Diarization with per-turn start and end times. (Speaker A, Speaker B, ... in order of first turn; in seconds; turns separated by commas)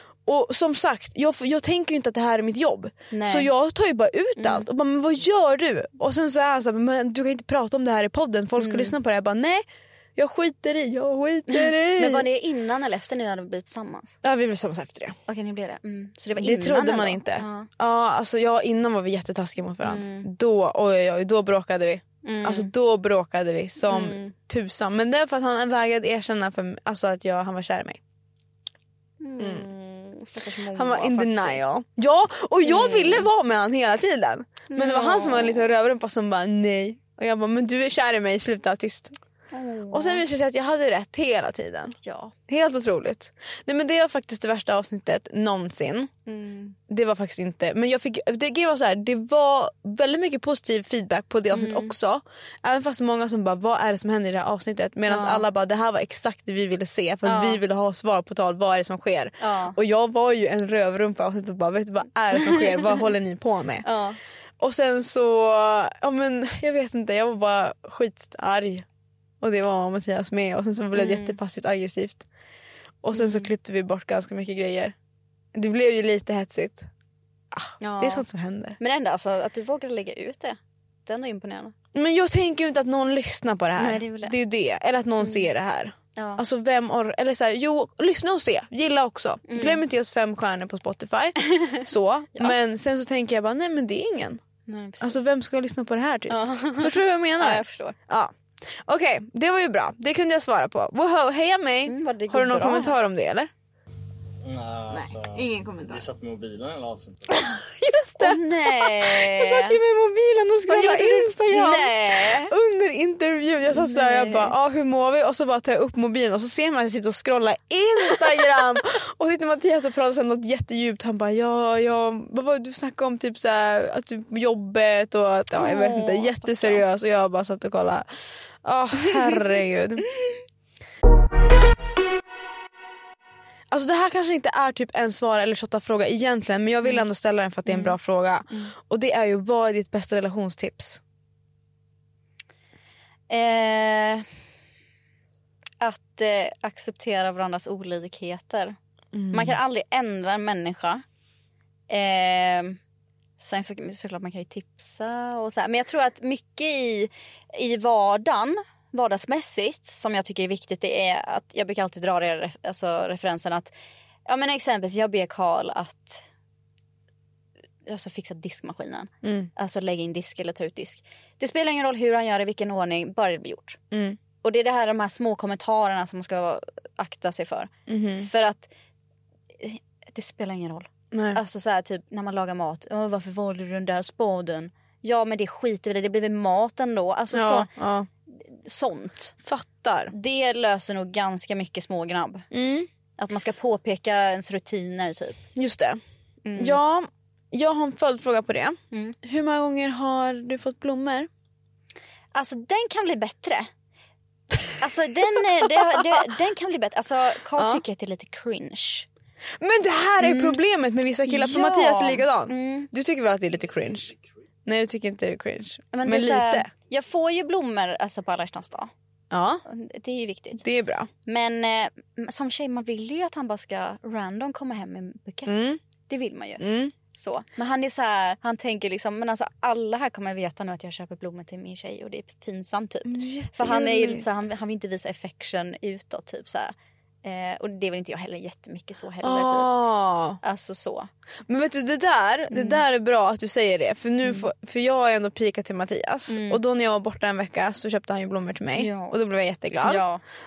Speaker A: 0.2-9.6, Speaker B: 3.1-3.5, Speaker B: 4.4-4.7, Speaker B: 8.6-8.9, Speaker A: 10.2-12.2, Speaker B: 11.5-14.2, Speaker A: 14.2-15.2, Speaker B: 15.3-17.7, Speaker A: 16.4-28.0, Speaker B: 19.8-20.3, Speaker B: 22.2-22.7, Speaker B: 23.8-24.3, Speaker B: 29.2-31.6, Speaker A: 29.4-29.6, Speaker A: 30.7-39.1, Speaker B: 32.6-33.3, Speaker B: 34.7-35.7, Speaker B: 39.5-40.2, Speaker A: 39.9-42.0, Speaker B: 42.0-42.3, Speaker A: 42.5-46.1, Speaker B: 46.3-46.8, Speaker A: 46.9-63.9, Speaker B: 51.5-51.9, Speaker B: 55.1-55.5, Speaker B: 57.2-57.6, Speaker B: 59.4-59.8, Speaker B: 62.4-62.9, Speaker B: 63.8-64.2, Speaker A: 64.6-68.8, Speaker A: 69.4-72.2, Speaker B: 71.0-71.4, Speaker A: 73.0-74.9, Speaker B: 73.1-73.5, Speaker A: 75.5-76.9, Speaker A: 77.5-78.8, Speaker B: 77.8-78.2, Speaker B: 78.8-81.7, Speaker A: 81.9-94.4, Speaker B: 83.8-84.3, Speaker B: 85.2-85.5, Speaker B: 86.2-86.4, Speaker B: 89.5-89.8, Speaker B: 94.7-95.2, Speaker A: 95.0-103.5, Speaker B: 96.3-98.0, Speaker B: 101.8-103.0, Speaker C: 104.4-107.5, Speaker A: 104.9-106.1, Speaker A: 107.3-128.1, Speaker B: 108.2-109.8, Speaker B: 110.7-112.5, Speaker B: 113.7-114.5, Speaker B: 118.1-118.6, Speaker B: 125.5-126.8, Speaker A: 128.6-130.1, Speaker B: 129.0-129.4, Speaker A: 133.7-141.0, Speaker B: 137.7-138.0, Speaker B: 143.3-144.3, Speaker B: 145.8-148.8, Speaker A: 149.1-149.6, Speaker B: 149.3-151.0, Speaker B: 151.9-152.8, Speaker B: 153.4-163.7, Speaker B: 164.2-166.2, Speaker B: 167.8-173.8, Speaker A: 169.2-169.5, Speaker A: 173.9-174.2, Speaker B: 174.4-178.7, Speaker A: 177.9-178.3, Speaker B: 179.6-187.7, Speaker A: 181.1-181.4, Speaker A: 187.3-188.1, Speaker B: 188.4-189.3, Speaker A: 189.4-190.1, Speaker B: 190.1-192.4, Speaker A: 192.5-192.9, Speaker B: 193.2-195.4, Speaker A: 195.5-196.0, Speaker B: 196.4-196.8, Speaker A: 196.6-201.3, Speaker B: 202.3-203.7, Speaker B: 204.8-209.1, Speaker A: 205.6-206.1, Speaker A: 207.5-207.8, Speaker A: 209.6-214.1, Speaker B: 210.2-210.6, Speaker B: 211.2-212.9, Speaker A: 214.7-216.7, Speaker B: 215.9-218.9, Speaker A: 219.3-219.6, Speaker B: 219.7-220.6, Speaker A: 220.6-221.1, Speaker B: 221.2-239.7, Speaker A: 225.5-225.8, Speaker A: 226.6-226.9, Speaker A: 233.0-234.3, Speaker A: 239.2-240.4, Speaker B: 240.4-241.1, Speaker A: 241.5-250.0, Speaker B: 242.5-242.8, Speaker B: 244.2-244.5, Speaker B: 246.3-246.6, Speaker B: 248.7-249.2, Speaker B: 249.8-250.2